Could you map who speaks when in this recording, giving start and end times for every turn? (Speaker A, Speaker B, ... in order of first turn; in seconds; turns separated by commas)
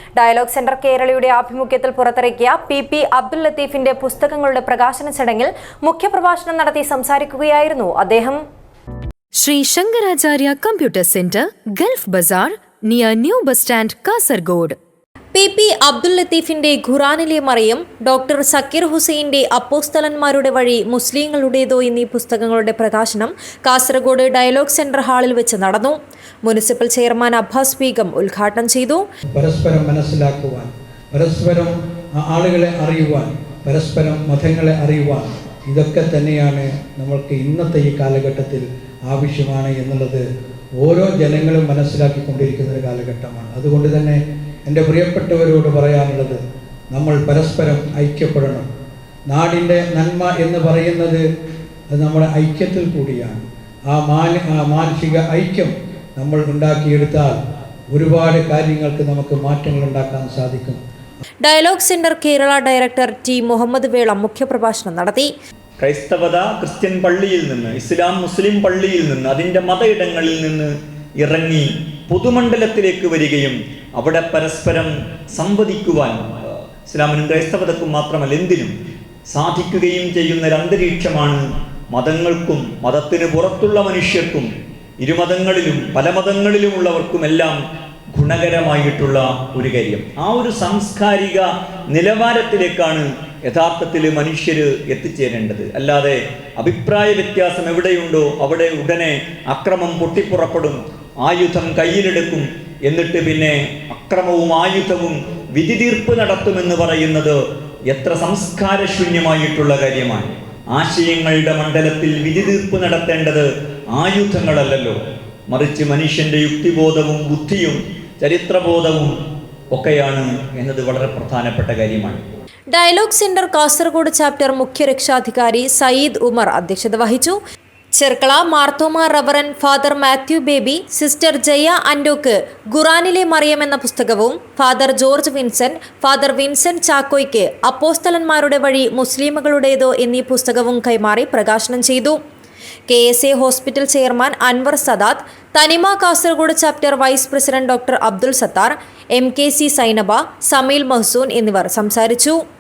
Speaker A: 0.2-8.4, Speaker B: 9.4-14.8, Speaker A: 15.3-29.0, Speaker C: 29.3-40.2, Speaker C: 40.8-46.4, Speaker C: 46.9-48.7, Speaker C: 49.3-51.2, Speaker C: 51.9-57.4, Speaker C: 57.9-60.8, Speaker A: 61.4-65.3, Speaker D: 65.8-78.7, Speaker D: 79.3-84.5, Speaker D: 85.0-87.6, Speaker D: 88.1-107.4, Speaker D: 107.9-115.0, Speaker D: 115.5-119.2, Speaker D: 119.7-122.2, Speaker A: 122.7-127.4, Speaker A: 128.0-142.2, Speaker A: 142.9-152.4